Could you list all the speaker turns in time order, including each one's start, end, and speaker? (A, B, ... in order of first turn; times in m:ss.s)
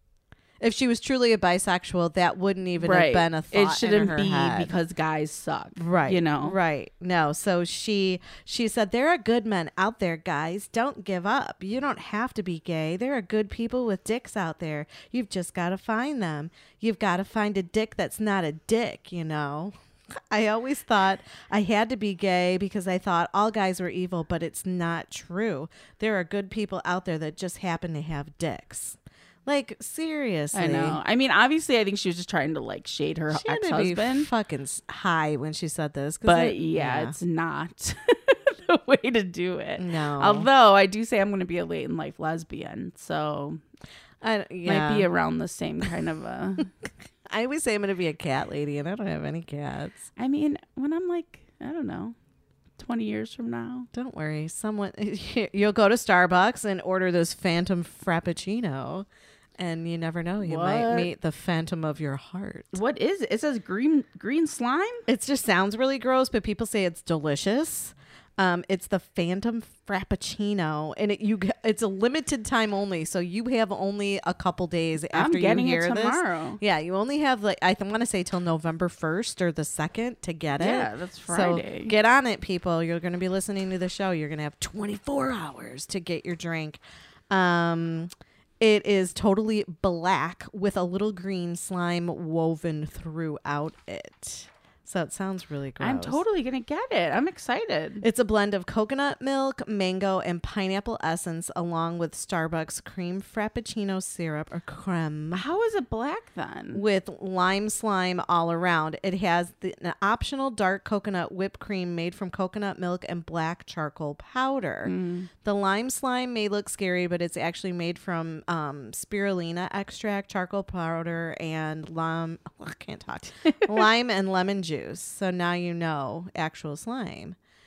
0:00.6-0:04.7 A
0:02.8-0:06.6 B
0:05.8-0:31.0 A
0:30.5-0:34.3 B
0:33.3-0:37.2 A
0:36.2-0:43.6 B
0:39.8-0:40.5 A
0:44.2-0:45.1 A
0:44.6-0:46.7 B
0:47.3-0:50.0 A
0:50.2-0:52.2 B
0:52.8-0:53.9 B
0:53.9-1:02.8 A
1:00.4-1:01.1 B
1:02.7-1:05.0 B
1:05.1-1:36.2 A
1:15.1-1:16.6 B
1:20.6-1:21.9 B
1:35.8-1:38.0 B
1:38.0-1:45.4 A
1:45.3-1:46.8 B
1:46.7-2:07.4 A
1:54.8-1:55.3 B